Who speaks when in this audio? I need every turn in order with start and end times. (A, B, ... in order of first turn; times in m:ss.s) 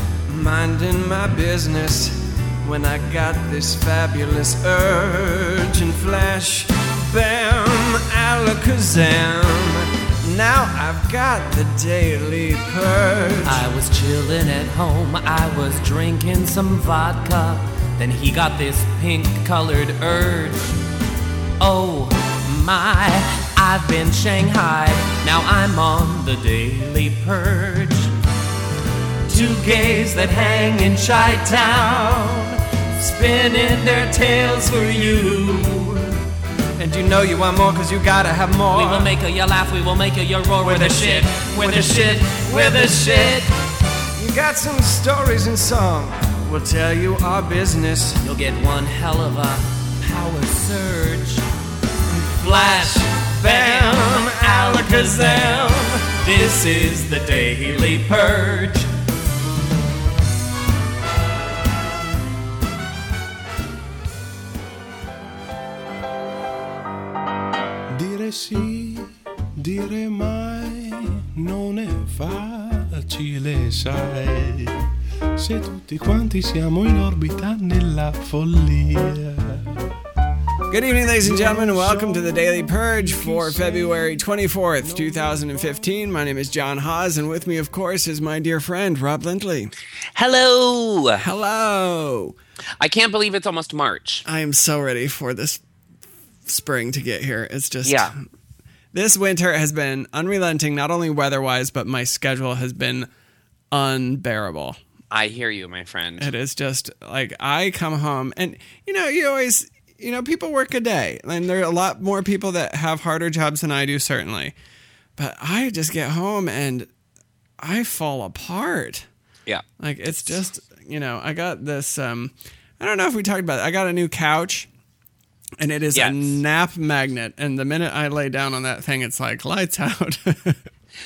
0:00.3-0:13.6 A
0:13.4-0:20.8 B
0:21.6-0:28.1 B
0:29.2-0:36.0 B
0:36.8-0:39.1 A
0:38.7-0:43.5 B
0:40.6-0:43.3 A
0:44.2-0:48.2 A
0:48.2-0:51.4 B
0:52.1-0:58.9 B
0:53.4-0:55.5 A
1:07.9-1:14.8 C
1:15.4-1:19.8 C
1:20.7-1:29.7 A
1:21.2-1:24.2 C
1:24.8-1:26.1 C
1:30.1-1:31.2 B
1:31.2-1:32.4 A
1:32.8-1:34.2 B
1:34.2-1:35.6 A
1:36.5-1:38.2 A
1:37.8-1:38.1 B
1:38.9-1:43.1 A
1:43.7-1:44.8 A
1:45.1-1:46.3 B
1:46.2-1:54.5 A
1:55.2-1:56.9 A
1:57.6-1:59.1 A
1:59.8-2:04.7 A
2:05.6-2:10.6 A
2:05.9-2:06.4 B